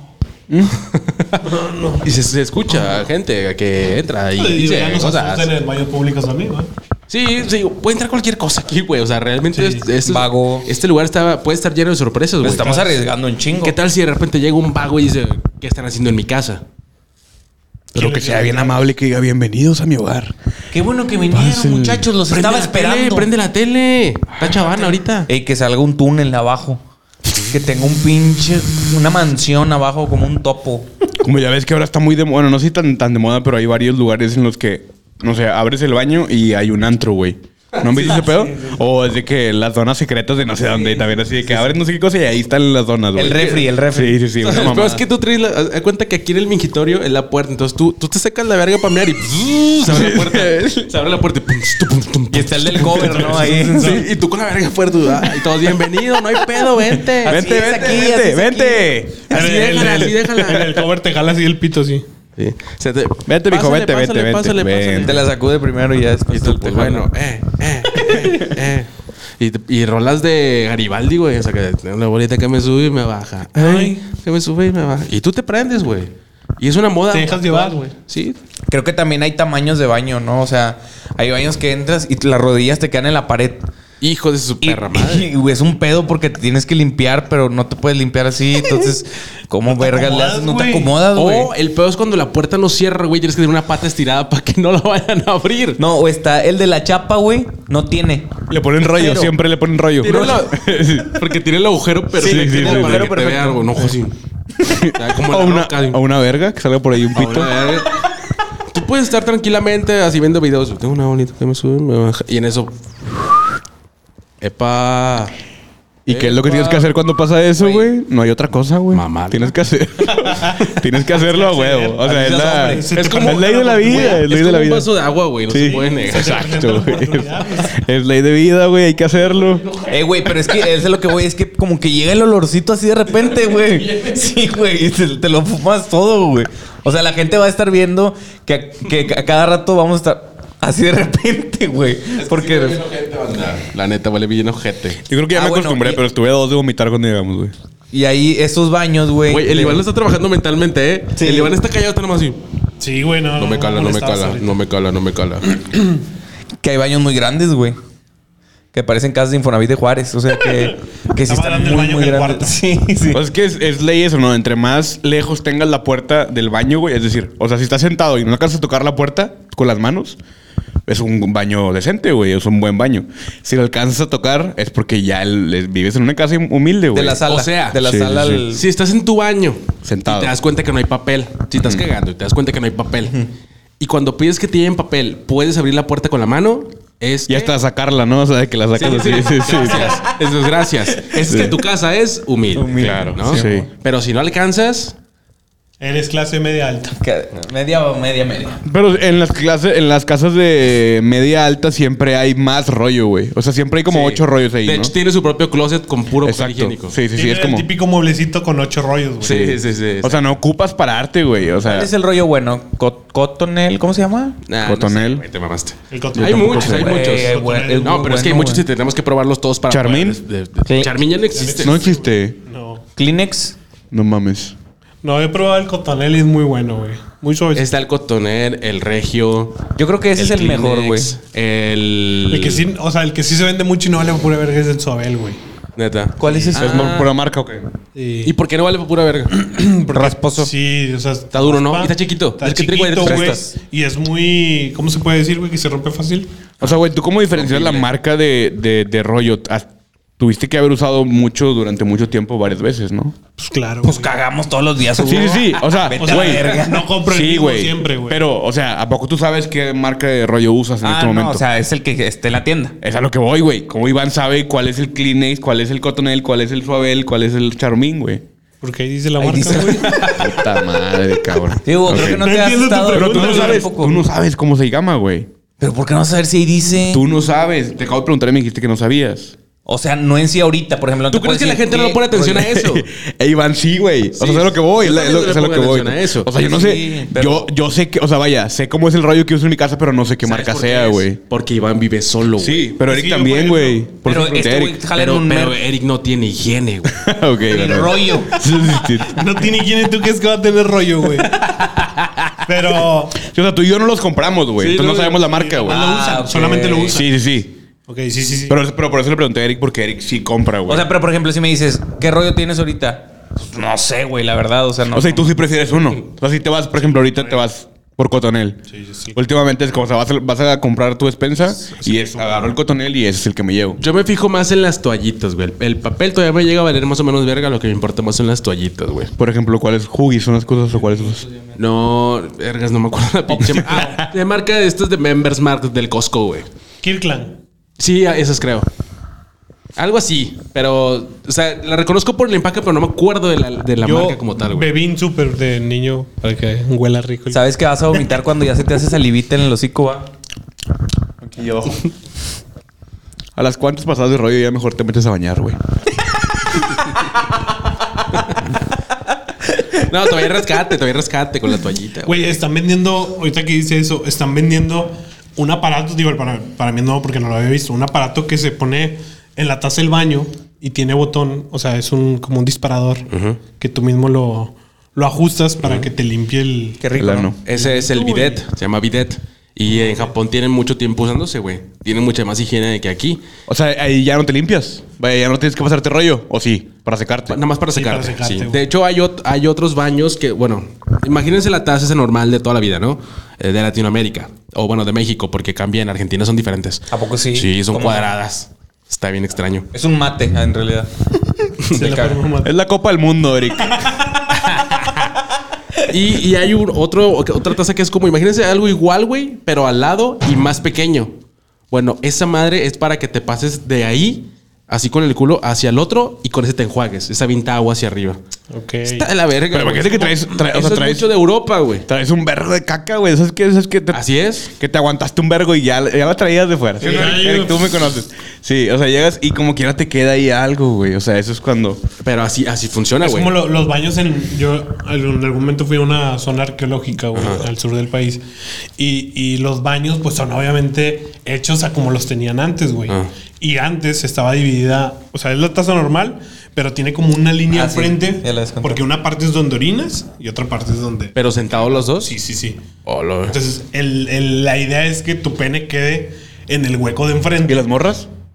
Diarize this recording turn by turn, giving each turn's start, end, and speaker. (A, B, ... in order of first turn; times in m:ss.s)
0:00.5-0:00.8 A
0:00.7-0:05.5 B
0:01.4-0:02.1 C
0:04.3-0:06.7 C
0:07.1-0:12.7 B
0:09.5-0:09.9 C
0:10.0-0:10.7 D
0:12.4-0:13.8 D
0:12.5-0:13.0 C
0:13.6-0:16.6 B
0:17.9-0:20.3 A
0:18.0-0:18.8 C
0:20.7-0:23.3 D
0:21.3-0:22.1 A
0:22.3-0:25.3 B
0:25.3-0:26.8 D
0:27.5-0:30.9 D
0:31.2-0:45.0 A
0:37.7-0:38.5 B
0:40.7-0:41.8 B
0:43.2-0:44.2 D
0:43.3-0:43.7 B
0:44.4-0:57.4 B
0:49.8-0:50.9 A
0:52.3-0:54.0 D
0:52.9-0:54.1 C
0:57.1-0:58.9 D
0:57.3-1:00.7 A
0:59.3-1:00.7 B
0:59.3-1:02.1 C
1:02.4-1:05.2 B
1:03.3-1:05.2 A
1:05.0-1:07.1 D
1:06.3-1:18.4 B
1:13.6-1:14.0 C
1:17.1-1:17.8 C
1:18.7-1:23.7 D
1:24.0-1:25.3 B
1:24.6-1:31.5 D
1:29.7-1:30.9 C
1:31.1-1:35.8 B
1:35.8-1:39.3 D
1:38.5-1:41.2 A
1:40.0-1:44.2 B
1:42.2-1:44.0 D
1:42.2-1:43.2 A
1:44.6-1:47.6 A
1:44.9-1:46.0 B
1:47.1-1:48.0 B
1:48.7-1:52.8 B
1:54.4-1:55.4 B
1:56.1-2:04.9 A
1:56.1-1:56.9 B
1:57.6-1:57.9 B
1:58.9-1:59.6 B
2:00.3-2:04.2 C
2:02.0-2:03.0 D
2:02.9-2:07.0 B
2:05.5-2:09.7 A
2:05.7-2:07.8 C
2:09.3-2:10.3 B
2:09.9-2:22.8 D
2:13.4-2:14.4 B
2:22.1-2:25.0 B
2:25.0-2:27.5 A
2:25.3-2:26.0 D
2:27.9-2:29.8 D
2:29.3-2:32.4 B
2:31.2-2:31.5 D
2:32.8-2:34.6 C
2:33.4-2:35.5 B
2:36.6-2:37.8 D
2:38.7-2:43.2 D
2:41.2-2:42.6 C
2:43.1-2:50.2 A
2:50.9-2:57.2 A
2:56.9-2:58.6 D
2:57.3-2:57.8 B
2:57.8-2:58.5 A
2:58.5-3:03.2 B
2:59.8-3:00.4 A
3:01.6-3:01.8 A
3:03.8-3:07.5 B
3:07.3-3:10.0 A
3:08.8-3:15.0 B
3:09.7-3:10.0 D
3:11.2-3:11.6 A
3:12.6-3:13.7 D
3:12.8-3:13.7 A
3:15.8-3:17.0 C
3:17.0-3:18.6 D
3:18.6-3:24.9 A
3:23.9-3:27.0 B
3:26.2-3:27.7 A
3:27.1-3:29.6 C
3:29.2-3:30.2 B
3:29.2-3:31.9 A
3:31.6-3:34.4 D
3:34.5-3:41.8 B
3:34.6-3:35.2 A
3:35.9-3:38.0 C
3:36.2-3:37.0 A
3:36.6-3:38.6 D
3:39.7-3:40.2 A
3:40.7-3:40.9 D
3:41.3-3:42.8 C
3:41.6-3:42.4 A
3:43.0-3:43.6 D
3:43.9-3:44.6 A
3:45.0-3:47.7 C
3:47.5-3:49.6 B
3:49.8-3:51.1 D
3:50.2-3:52.7 B
3:52.3-3:55.4 C
3:55.8-3:57.1 B
3:56.2-3:57.1 D
3:56.6-3:57.7 A
3:58.0-3:58.3 C
3:58.2-3:59.4 B
3:59.3-4:06.3 C
3:59.9-4:00.5 D
4:01.3-4:03.4 B
4:03.0-4:03.5 D
4:06.6-4:13.2 A
4:07.3-4:07.9 B
4:13.4-4:14.1 C
4:13.8-4:16.9 D
4:15.0-4:21.4 A
4:16.0-4:18.2 C
4:20.8-4:22.8 D
4:22.8-4:28.2 A
4:28.6-4:30.2 C
4:29.2-4:30.3 D
4:29.6-4:30.1 B
4:29.9-4:32.3 A
4:31.6-4:34.0 D
4:31.9-4:33.7 C
4:32.9-4:35.3 A
4:35.6-4:37.0 D
4:36.9-4:39.4 A
4:39.7-4:42.6 D
4:41.1-4:42.9 B
4:42.5-4:51.2 A
4:44.2-4:46.3 B
4:46.3-4:47.5 D
4:50.2-4:52.8 B
4:52.4-4:54.8 A
4:52.8-4:53.9 C
4:54.0-4:55.6 D
4:55.0-4:57.1 B
4:56.9-4:59.5 A
4:57.5-4:58.4 D
4:58.4-5:01.6 C
5:01.4-5:02.3 B
5:02.4-5:03.2 C
5:03.2-5:05.8 A
5:04.6-5:05.2 B
5:05.3-5:07.1 C
5:05.7-5:07.0 D
5:06.9-5:07.6 A
5:07.9-5:08.6 C
5:08.5-5:10.9 A
5:10.7-5:15.4 D
5:14.9-5:18.6 A
5:16.9-5:17.4 C
5:18.7-5:19.2 C
5:19.2-5:23.8 A
5:21.5-5:22.6 C
5:23.8-5:29.1 B
5:29.2-5:31.2 A
5:31.6-5:36.5 B
5:33.4-5:34.1 C
5:36.8-5:37.4 C
5:37.8-5:38.7 B
5:39.8-5:44.7 B
5:43.8-5:47.4 C
5:47.3-5:50.1 D
5:51.3-5:51.8 A
5:53.4-5:55.6 A
5:58.1-5:58.4 B
5:59.8-6:02.4 B
6:02.0-6:16.8 C
6:13.1-6:13.4 B
6:16.8-6:17.4 D
6:17.0-6:17.4 A
6:17.4-6:23.2 B
6:17.5-6:18.4 C
6:19.7-6:20.2 C
6:23.5-6:27.4 A
6:27.3-6:39.7 B
6:27.7-6:28.6 C
6:36.9-6:38.1 D
6:39.7-6:40.9 D
6:41.7-6:42.5 C
6:41.7-6:42.2 D
6:42.4-6:43.9 A
6:43.7-6:44.0 C
6:44.3-6:45.1 B
6:45.9-6:51.1 B
6:51.7-6:58.2 B
6:58.5-6:59.1 C
6:58.9-7:01.9 B
6:59.5-7:01.1 A
7:01.9-7:11.8 A
7:03.9-7:04.5 B
7:06.8-7:07.9 C
7:12.0-7:13.3 B
7:13.0-7:32.6 C
7:17.1-7:17.5 B
7:27.5-7:28.8 D
7:31.2-7:32.1 B
7:32.8-7:33.4 B
7:33.3-7:37.7 C
7:37.4-7:38.1 A